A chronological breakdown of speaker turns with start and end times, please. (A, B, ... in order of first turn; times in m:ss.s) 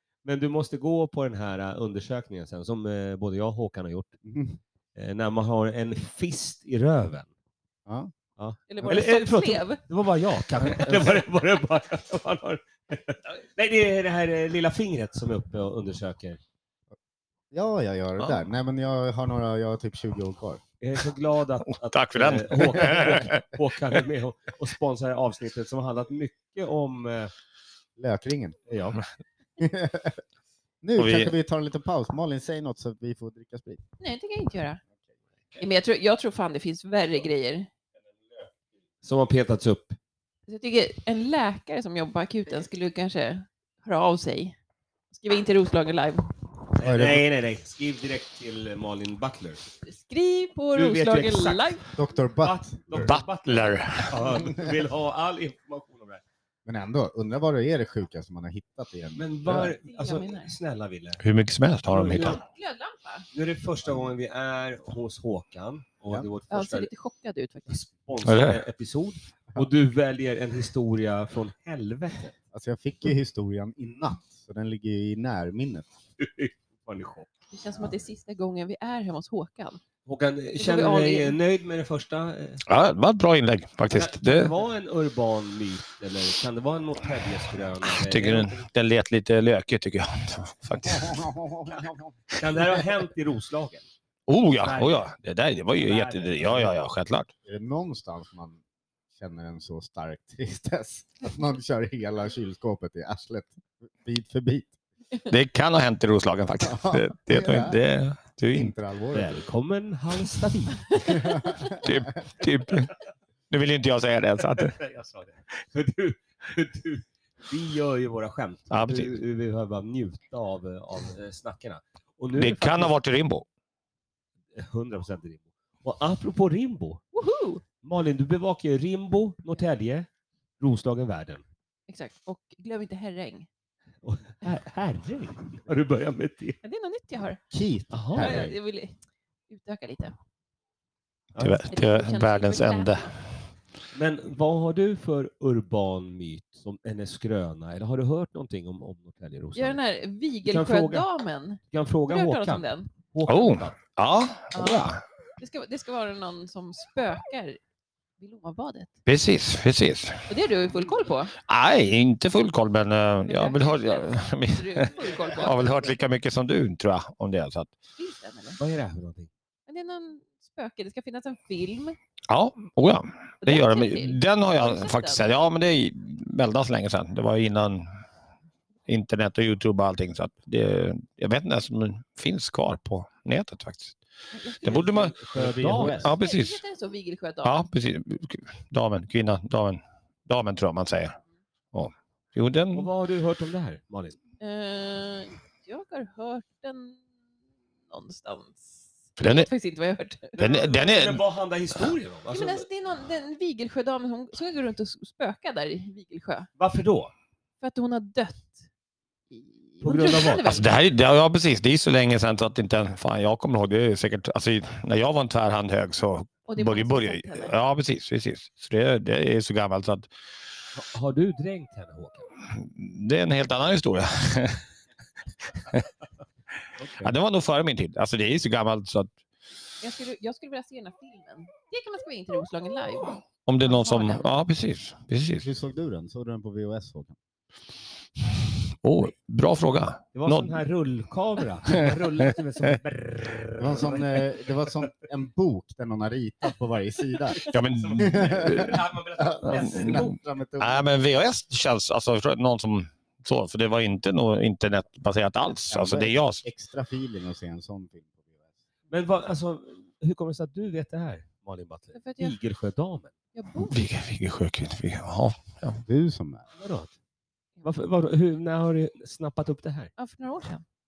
0:00.2-0:04.2 A
0:04.2-0:04.6 B
0:04.9-0:07.3 A
0:07.8-0:08.1 B
0:08.4-0:16.4 A
0:08.7-0:09.8 C
0:17.5-0:20.6 B
0:20.8-0:27.3 A
0:21.8-0:23.4 D
0:28.0-0:28.6 B
0:28.7-0:29.0 A
0:29.6-0:30.2 B
0:30.8-0:33.8 B
0:31.0-0:31.3 D
0:34.0-0:34.8 C
0:35.6-0:37.7 C
0:39.0-0:40.0 A
0:40.5-0:44.6 C
0:45.1-0:46.3 C
0:46.8-0:49.6 A
0:46.8-0:47.2 B
0:49.8-0:51.9 C
0:50.7-0:51.8 A
0:51.9-0:53.1 B
0:52.4-0:56.2 A
0:53.0-0:54.2 D
0:54.4-0:54.7 B
0:56.6-0:59.7 B
0:59.2-1:01.2 A
0:59.5-1:00.5 C
1:01.2-1:02.4 D
1:01.9-1:02.4 A
1:02.4-1:03.3 C
1:03.3-1:06.9 A
1:06.5-1:07.8 C
1:07.7-1:12.3 A
1:08.2-1:08.6 D
1:12.5-1:15.9 B
1:16.2-1:17.3 A
1:17.5-1:19.8 C
1:20.0-1:22.6 A
1:20.6-1:21.4 C
1:22.6-1:24.5 D
1:23.9-1:28.7 A
1:27.9-1:31.3 D
1:30.8-1:32.2 B
1:32.3-1:33.8 A
1:34.3-1:37.3 D
1:34.5-1:35.1 A
1:35.7-1:36.7 A
1:37.4-1:38.6 B
1:39.1-1:44.7 B
1:45.2-1:48.7 D
1:46.6-1:47.8 B
1:48.5-1:49.4 B
1:49.1-1:51.1 A
1:51.0-1:52.0 B
1:51.1-1:51.6 C
1:51.7-1:52.9 D
1:53.5-1:54.8 D
1:54.5-2:02.9 A
1:58.7-1:59.2 D
2:02.3-2:03.4 D
2:04.5-2:07.0 A
2:07.1-2:07.6 C
2:07.8-2:10.1 A
2:10.6-2:11.4 A
2:11.9-2:13.5 C
2:14.0-2:16.6 A
2:16.6-2:17.4 C
2:17.5-2:18.5 B
2:17.9-2:18.5 A
2:18.2-2:19.0 C
2:19.5-2:20.1 C
2:21.3-2:21.6 A
2:21.4-2:23.2 D
2:21.7-2:23.1 C
2:23.9-2:29.8 A
2:29.5-2:32.9 C
2:30.4-2:31.1 A
2:31.7-2:33.8 A
2:33.2-2:35.0 D
2:34.5-2:37.6 C
2:38.2-2:38.9 C
2:39.0-2:40.3 D
2:40.3-2:41.3 C
2:41.4-2:47.7 D
2:43.2-2:45.9 C
2:48.0-2:48.6 C
2:48.6-2:49.3 A
2:49.7-2:52.0 C
2:52.3-2:57.9 D
2:53.4-2:55.2 C
2:58.9-3:04.0 D
3:04.3-3:05.1 C
3:04.6-3:05.2 D
3:04.6-3:06.1 A
3:05.3-3:06.1 B
3:05.7-3:06.6 D
3:06.0-3:07.6 C
3:07.4-3:11.2 D
3:11.7-3:12.9 D
3:12.7-3:14.2 A
3:14.4-3:17.0 C
3:17.9-3:20.4 C
3:19.2-3:19.5 D
3:20.4-3:21.2 D
3:20.4-3:22.6 A
3:22.3-3:26.5 C
3:26.6-3:27.1 A
3:27.6-3:28.6 C
3:29.3-3:30.7 C
3:29.8-3:30.6 A
3:30.4-3:40.1 D
3:36.5-3:37.5 C
3:40.7-3:42.3 A
3:42.5-3:44.6 D
3:46.8-3:47.1 A
3:47.0-3:49.1 D
3:49.8-3:54.3 C
3:53.4-3:55.4 D
3:55.4-3:57.2 B
3:58.8-4:00.6 D
4:00.1-4:04.2 A
4:03.6-4:07.4 B
4:07.4-4:10.2 A
4:07.4-4:08.8 D
4:08.0-4:10.9 B
4:09.5-4:10.0 D
4:10.6-4:16.4 D
4:15.7-4:18.4 B
4:18.9-4:23.1 A
4:21.9-4:22.4 C
4:23.3-4:23.8 C
4:23.6-4:25.8 D
4:25.8-4:26.4 B
4:26.6-4:26.9 A
4:27.6-4:29.9 A
4:30.0-4:30.6 C